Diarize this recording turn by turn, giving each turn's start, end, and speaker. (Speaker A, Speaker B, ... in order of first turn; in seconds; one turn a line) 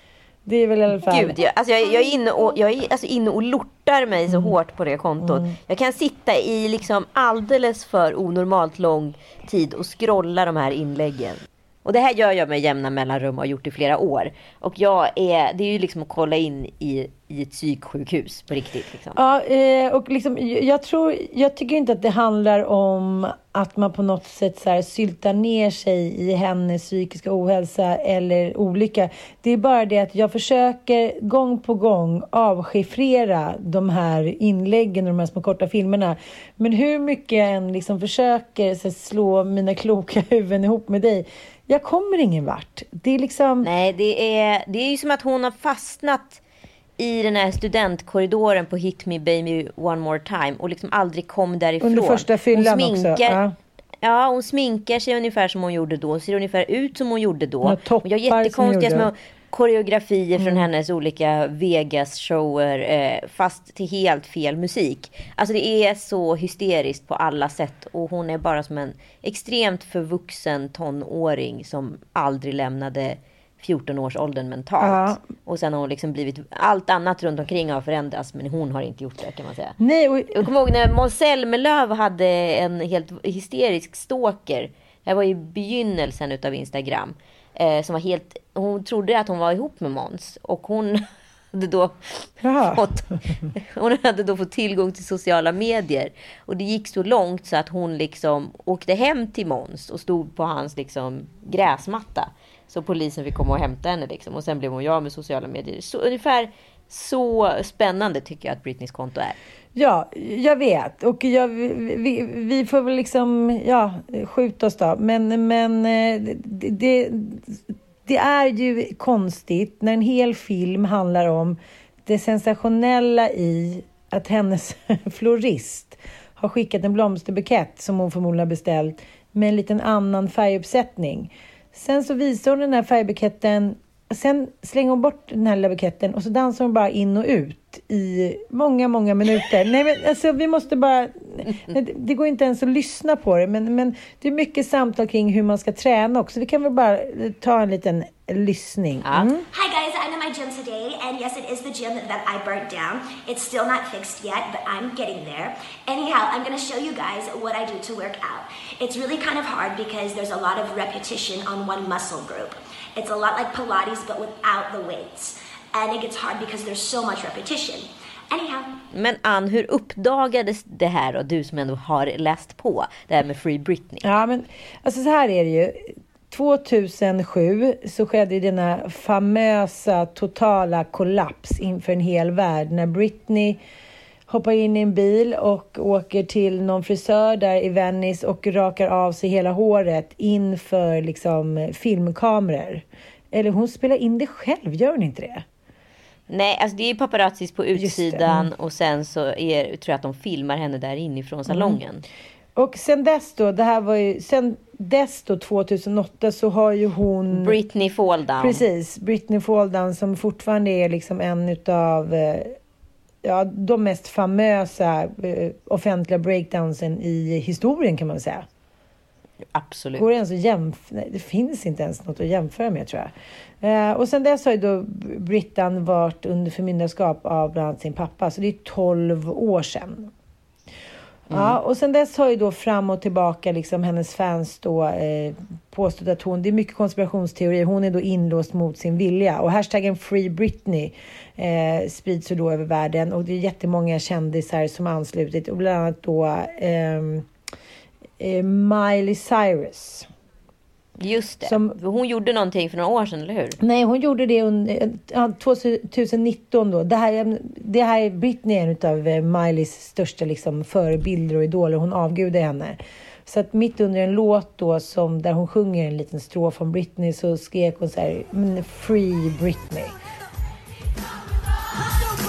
Speaker A: 0.5-1.4
Speaker B: 1.0-19.2
Speaker A: 4.3-4.5
Speaker A: 5.2-5.5
Speaker A: 19.1-43.7
Speaker B: 43.6-46.4
Speaker B: 47.0-53.4
Speaker A: 51.8-53.5
Speaker B: 54.0-79.8
Speaker A: 57.6-59.1
Speaker A: 60.4-60.6
Speaker A: 74.8-75.2
Speaker A: 79.8-80.5
Speaker B: 80.3-92.0
Speaker A: 92.4-92.9
Speaker B: 92.7-109.4
Speaker A: 109.8-149.4
Speaker B: 149.0-149.3
Speaker C: 149.5-168.7
Speaker B: 168.9-174.0
Speaker A: 174.0-183.6
Speaker A: 184.3-195.4
Speaker B: 196.3-202.0
Speaker A: 197.8-198.5
Speaker A: 201.5-201.8
Speaker A: 202.6-207.6
Speaker B: 207.3-208.6
Speaker A: 208.4-212.6
Speaker A: 213.2-218.4
Speaker B: 219.5-220.1
Speaker A: 220.0-230.1
Speaker B: 231.3-231.6
Speaker A: 231.3-247.3
Speaker A: 248.2-250.1
Speaker B: 251.0-253.6
Speaker A: 251.4-251.8
Speaker A: 253.6-269.9